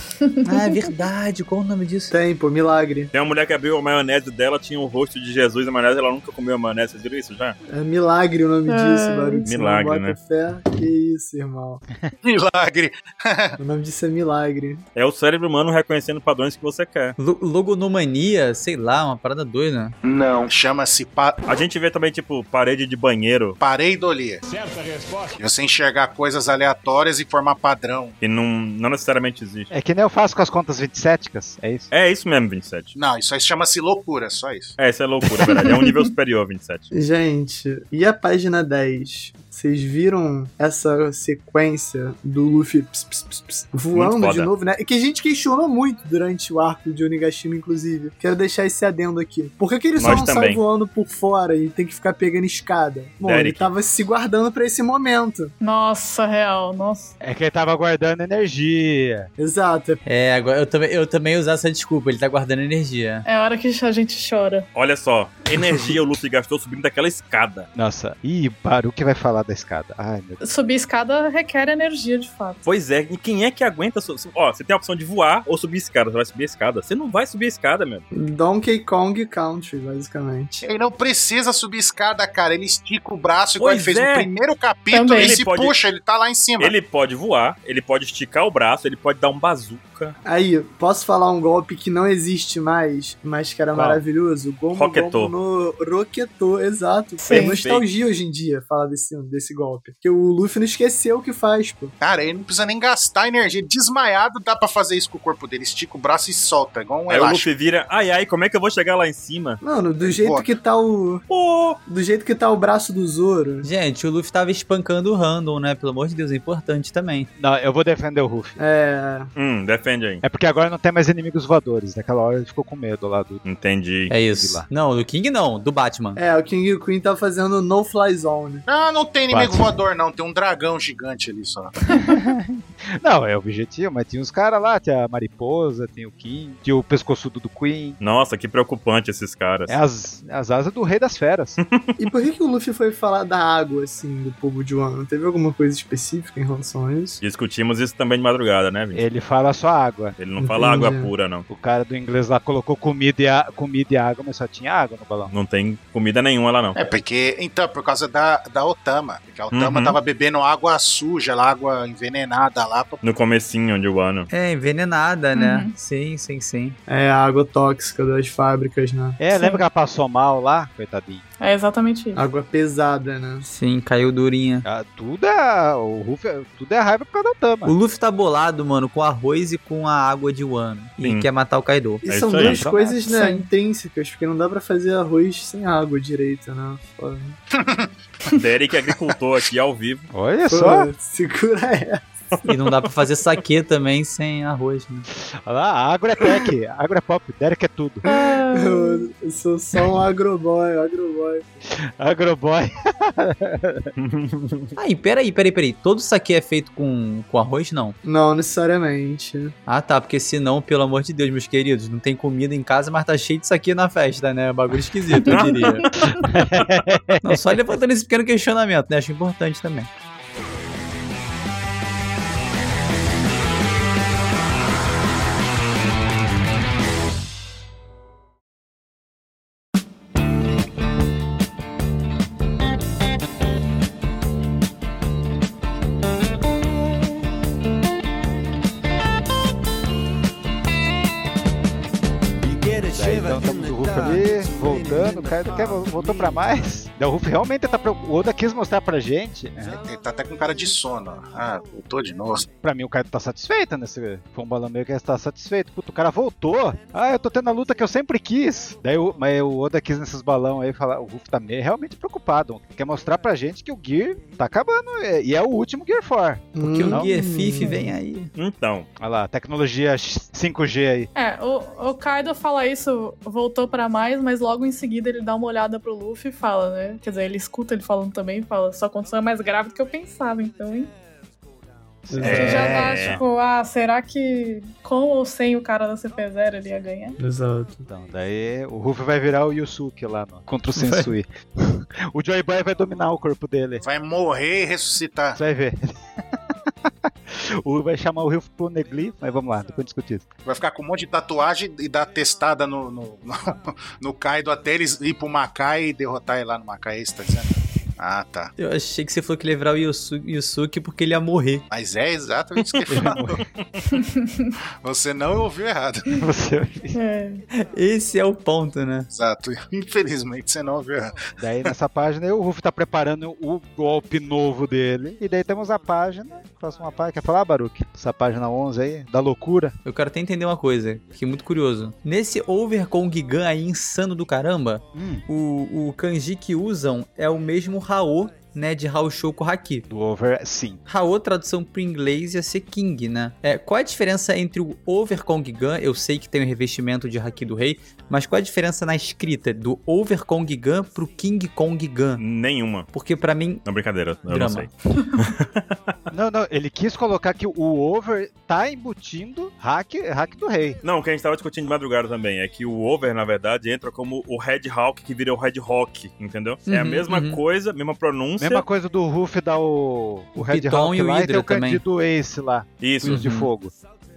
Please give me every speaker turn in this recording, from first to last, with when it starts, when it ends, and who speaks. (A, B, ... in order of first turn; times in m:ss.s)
0:00.2-0:00.8 A
0:00.4-0:02.1 B
0:02.1-0:03.1 C
0:03.1-0:07.6 D
0:07.7-0:11.8 C
0:08.7-0:09.5 A
0:09.4-0:10.2 D
0:12.2-0:13.6 E
0:13.6-0:14.8 C
0:14.9-0:17.2 D
0:17.2-0:19.9 B
0:20.0-0:20.5 F
0:20.1-0:21.4 E
0:21.4-0:23.6 D
0:23.6-0:24.4 E
0:24.4-0:25.4 F
0:25.4-0:28.2 E
0:28.2-0:29.7 D
0:29.7-0:31.9 G
0:31.9-0:32.9 D
0:32.9-0:34.7 E
0:34.8-0:36.9 D
0:36.9-0:55.5 C
0:43.9-0:44.5 D
0:50.0-0:50.6 D
0:53.2-0:53.7 D
0:55.6-0:57.1 A
0:57.2-0:59.3 G
0:59.4-1:00.0 C
1:00.0-1:03.2 B
1:03.2-1:04.7 A
1:04.7-1:07.7 D
1:07.7-1:10.4 G
1:10.4-1:12.6 A
1:12.6-1:18.0 D
1:18.1-1:20.6 C
1:20.6-1:26.7 E
1:23.6-1:24.3 D
1:24.9-1:25.4 A
1:25.1-1:25.7 D
1:26.6-1:30.2 D
1:30.2-1:41.9 C
1:33.7-1:34.0 D
1:34.7-1:35.3 D
1:37.2-1:37.6 A
1:37.3-1:37.8 D
1:42.0-1:47.5 E
1:47.1-1:49.6 D
1:49.6-1:51.2 C
1:50.0-1:50.5 E
1:51.3-1:51.8 D
1:51.8-1:53.7 C
1:53.6-1:57.3 B
1:57.4-1:58.6 G
1:58.6-1:59.3 C
1:59.4-2:00.2 D
2:00.2-2:03.4 G
2:03.4-2:04.1 D
2:04.1-2:06.2 B
2:04.3-2:04.6 G
2:06.2-2:08.6 C
2:08.6-2:11.7 E
2:09.3-2:09.6 G
2:12.0-2:18.0 G
2:18.0-2:19.8 D
2:19.7-2:21.6 G
2:21.6-2:22.0 D
2:22.0-2:27.2 C
2:27.2-2:29.0 D
2:28.9-2:30.2 G
2:30.2-2:31.4 D
2:30.4-2:31.1 C
2:31.5-2:35.3 G
2:35.3-2:36.8 D
2:36.7-2:43.0 E
2:39.5-2:40.0 D
2:43.0-2:44.3 D
2:44.3-2:46.8 B
2:45.3-2:45.7 A
2:46.9-2:49.2 C
2:49.2-2:51.2 G
2:49.3-2:49.6 A
2:51.4-2:52.2 A
2:52.1-2:53.4 C
2:53.4-2:54.6 B
2:54.6-2:57.7 G
2:57.6-3:02.0 B
3:01.0-3:01.3 D
3:02.0-3:07.4 C
3:02.1-3:02.6 D
3:02.4-3:03.0 G
3:03.0-3:03.4 A
3:07.5-3:07.9 E
3:08.4-3:10.1 D
3:10.1-3:10.9 G
3:10.5-3:12.2 C
3:12.4-3:15.0 B
3:15.4-3:18.0 G
3:18.0-3:19.1 A
3:18.5-3:21.4 C
3:21.8-3:23.9 G
3:24.0-3:24.7 D
3:24.8-3:28.0 B
3:28.0-3:29.5 C
3:29.7-3:35.8 B
3:35.2-3:35.8 A
3:35.2-3:36.0 D
3:36.2-3:37.4 G
3:36.6-3:36.8 D
3:37.2-3:39.9 B
4:02.4-4:06.7 F
4:02.7-4:09.8 G
4:09.7-4:12.5 E
4:12.6-4:27.1 G
4:26.5-4:27.9 C
4:26.6-4:28.3 B
4:28.4-4:28.9 D
4:29.0-4:31.1 G
4:31.1-4:40.9 A
4:42.1-4:43.2 G
4:42.1-4:42.8 C
4:42.2-4:43.2 D
4:42.3-4:47.2 A
4:47.2-4:47.8 C
4:47.9-4:53.8 G
4:50.8-4:51.1 B
4:53.8-4:55.4 E
4:55.4-5:00.3 G
5:00.4-5:08.5 E
5:08.6-5:11.6 B
5:11.7-5:13.4 E
5:12.9-5:13.4 G
5:14.0-5:14.4 A
5:14.8-5:16.0 E
5:16.1-5:17.0 G
5:16.9-5:17.4 A
5:17.5-5:19.1 B
5:19.1-5:21.2 E
5:21.4-5:29.7 G
5:29.8-5:39.8 B
5:34.9-5:35.2 G
5:39.9-5:40.8 G
5:40.9-5:52.2 B
5:52.2-5:52.9 D
5:52.9-5:53.6 B
5:53.6-5:55.7 D
5:54.3-5:54.7 B
5:56.1-6:00.8 G
6:00.8-6:08.6 D
6:06.7-6:07.4 B
6:08.4-6:13.7 G
6:10.4-6:11.8 B
6:12.8-6:13.2 D
6:13.0-6:13.5 B